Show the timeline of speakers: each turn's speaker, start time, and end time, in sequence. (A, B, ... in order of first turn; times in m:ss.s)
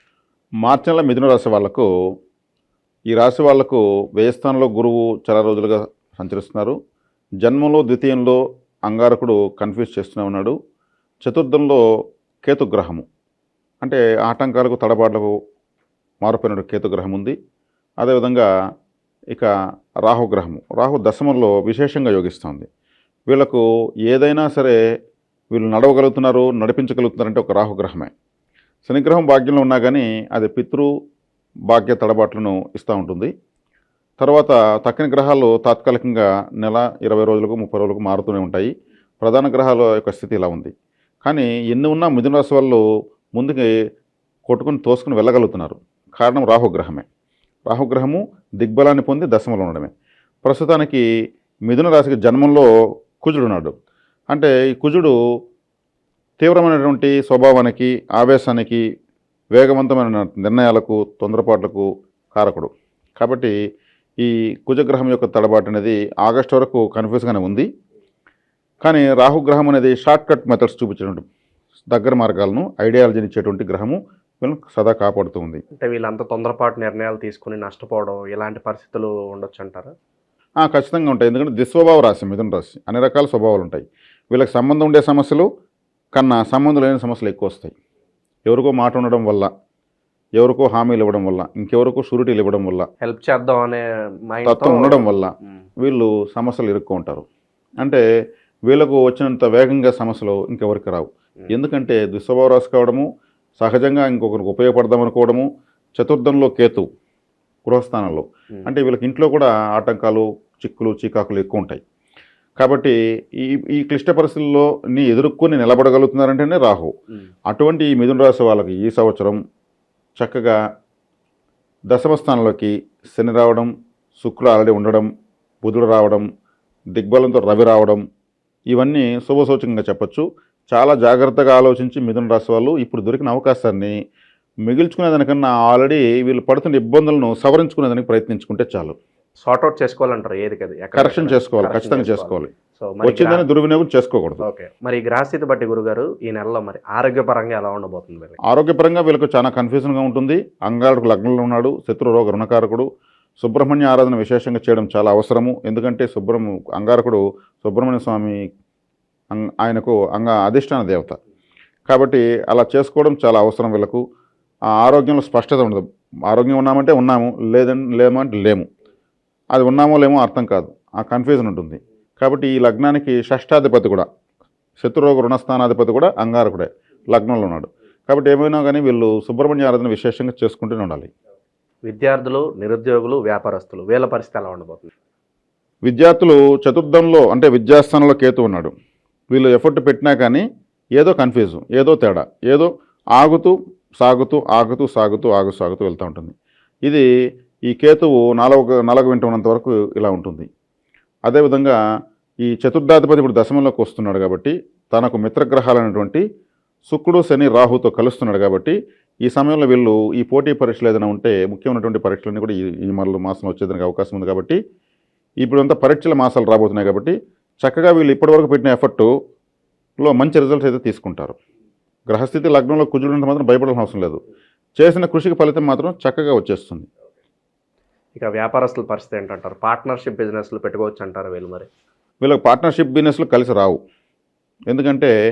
0:00.6-0:01.9 A
0:03.1-0:06.8 A
0:07.4-0:10.6 A
0:11.2-0:11.8 A
0:12.4-0:13.0 A
0:13.8-0:15.3 A
0:16.2-0:17.4 A
0:18.0-0:18.5 A
0:20.1-0:22.7 A
0:23.3-0:24.8 A
0:25.5-0:28.1 A
0:28.8-0:30.9 A
0:31.7-0:33.3 A
0:34.2-0:38.7 A
0:39.2-0:40.7 A
0:41.2-0:42.8 A
0:43.4-0:43.7 A
0:44.5-0:47.0 A
0:47.7-0:49.9 A
0:50.4-0:51.0 A
0:51.7-0:52.7 A
0:53.2-0:53.7 A
0:54.3-0:55.2 A
0:56.4-0:58.8 A
0:59.5-1:03.6 A
1:04.2-1:07.7 A
1:08.8-1:11.2 A
1:11.9-1:15.6 A
1:15.8-1:19.9 B
1:20.6-1:25.5 A
1:26.2-1:27.7 A
1:28.5-1:29.5 A
1:30.4-1:32.9 A
1:33.0-1:35.0 B
1:34.4-1:37.2 A
1:38.7-1:43.1 A
1:43.6-1:46.9 A
1:47.6-1:51.8 A
1:52.6-1:56.9 A
1:57.5-1:59.4 A
2:00.2-2:00.6 A
2:01.9-2:05.1 A
2:05.6-2:06.3 A
2:07.0-2:08.0 A
2:08.7-2:13.9 A
2:14.6-2:19.0 A
2:19.4-2:23.4 B
2:20.9-2:22.5 A
2:23.0-2:24.4 A
2:24.4-2:28.4 B
2:28.5-2:32.9 A
2:33.4-2:38.4 A
2:39.3-2:41.2 A
2:41.9-2:44.0 A
2:44.8-2:48.6 A
2:49.5-2:54.1 A
2:54.8-3:01.1 A
3:01.9-3:04.9 B
3:05.8-3:08.7 A
3:09.3-3:10.4 A
3:11.0-3:16.3 A
3:17.7-3:20.5 A
3:21.2-3:21.8 A
3:22.4-3:26.2 A
3:26.9-3:34.6 A
3:35.4-3:39.1 A
3:40.0-3:41.4 A
3:42.1-3:44.2 A
3:44.8-3:46.9 A
3:48.2-3:51.7 B
3:52.2-3:53.8 A
3:54.7-3:55.1 A